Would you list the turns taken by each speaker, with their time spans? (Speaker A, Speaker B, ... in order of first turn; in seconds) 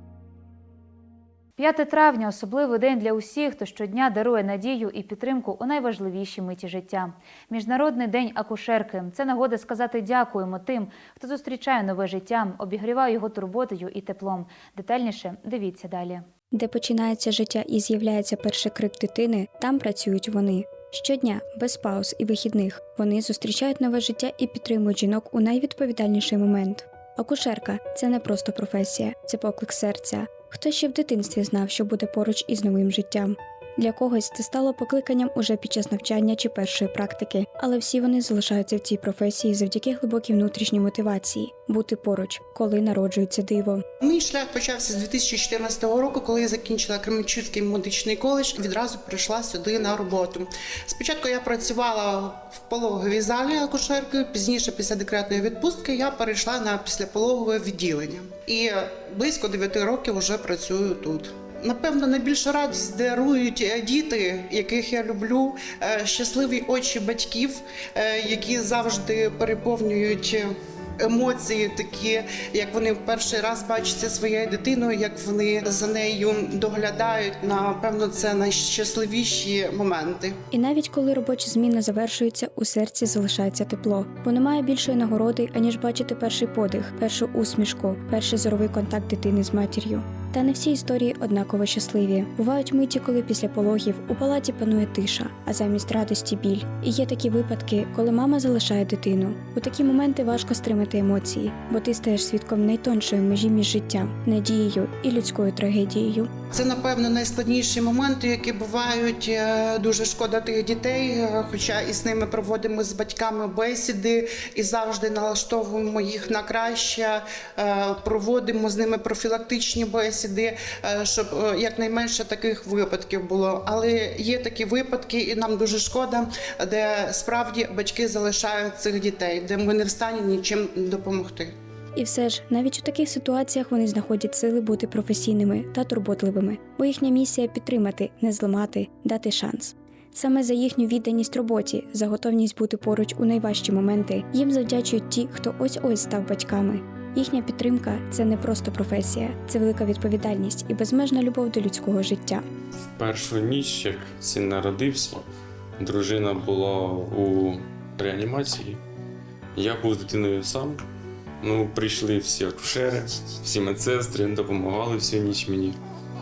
Speaker A: 1.6-16.2
Speaker B: 16.5-43.8, 80.5-106.3, 132.0-152.4
Speaker C: 44.0-70.5, 71.0-80.4, 106.5-131.5
Speaker D: 153.0-155.2, 155.8-158.8, 159.6-160.8, 161.4-165.8